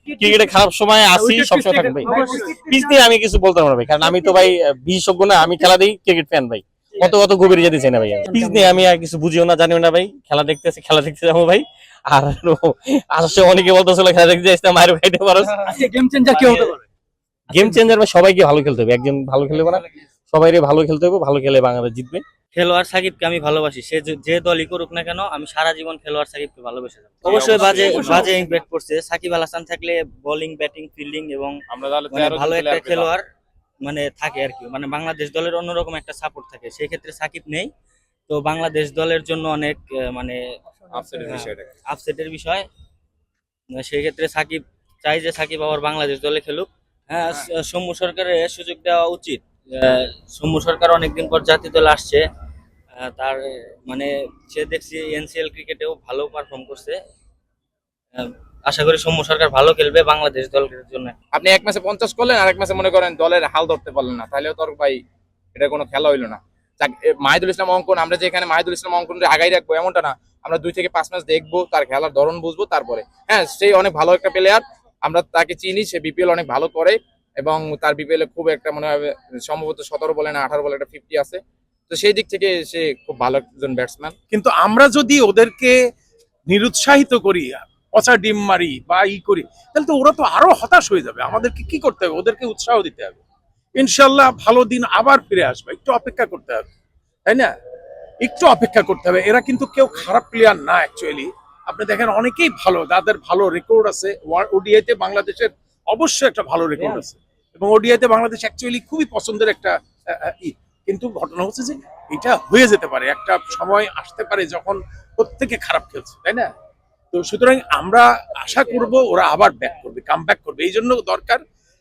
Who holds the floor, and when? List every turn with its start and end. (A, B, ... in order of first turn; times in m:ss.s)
0:00.2-0:15.9 A
0:01.4-0:02.8 B
0:15.7-0:16.8 B
0:16.4-0:16.7 C
0:17.5-0:22.2 A
0:22.5-0:31.6 C
0:27.2-0:28.3 D
0:27.3-0:28.4 E
0:31.7-0:33.1 D
0:32.1-0:33.2 C
0:33.8-0:37.7 C
0:38.3-0:40.4 C
0:40.9-0:41.7 D
0:41.2-0:42.7 C
0:43.8-0:52.2 C
0:53.0-0:57.0 C
0:58.2-1:01.2 C
1:01.3-1:05.0 D
1:05.6-1:24.1 D
1:24.3-1:25.7 E
1:26.5-1:33.2 E
1:33.8-1:36.6 E
1:37.3-1:37.5 E
1:38.2-1:56.5 E
1:57.1-2:01.4 E